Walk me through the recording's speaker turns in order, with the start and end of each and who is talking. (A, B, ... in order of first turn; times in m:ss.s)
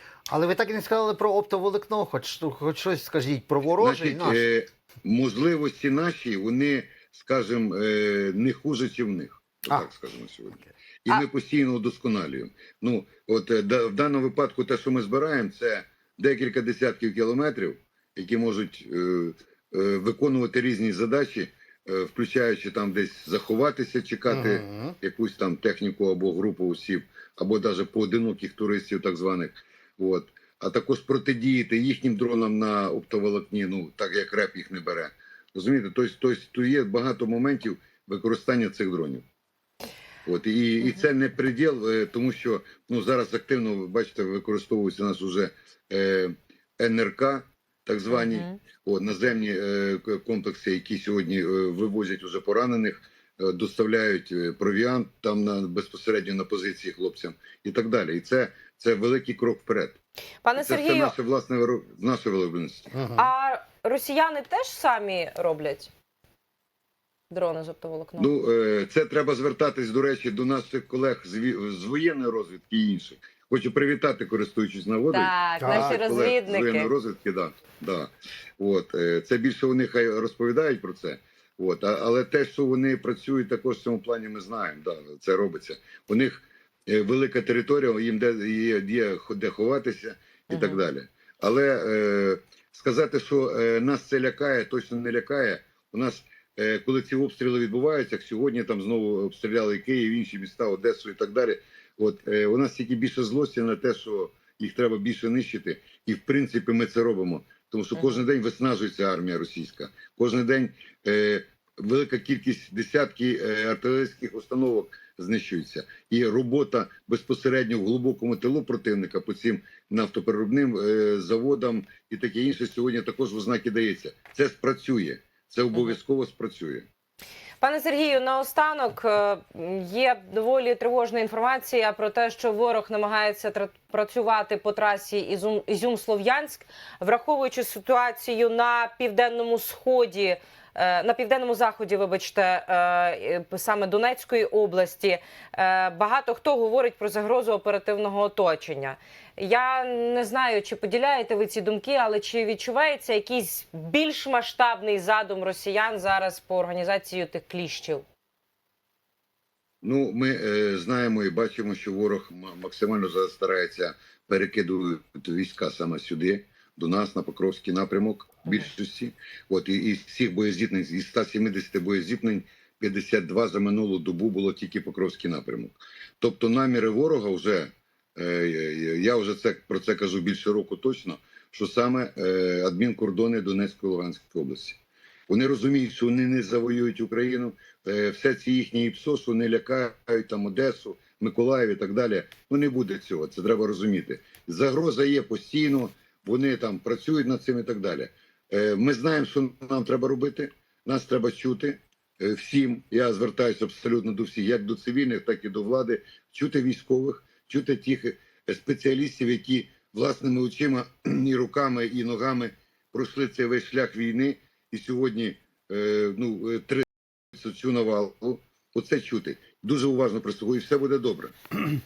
0:00.3-0:04.4 A
0:03.8-0:39.2 B
0:24.3-0:25.0 A
0:40.2-1:00.0 B
0:48.2-0:48.6 C
1:00.4-1:01.1 C
1:00.6-1:02.9 B
1:02.9-1:03.3 A
1:03.1-1:05.9 C
1:07.3-1:08.3 C
1:08.2-2:06.9 B
1:15.1-1:16.9 C
1:15.6-1:16.0 A
1:30.5-1:30.8 C
2:07.6-2:38.0 C
2:39.8-3:04.8 B
3:05.3-3:41.3 B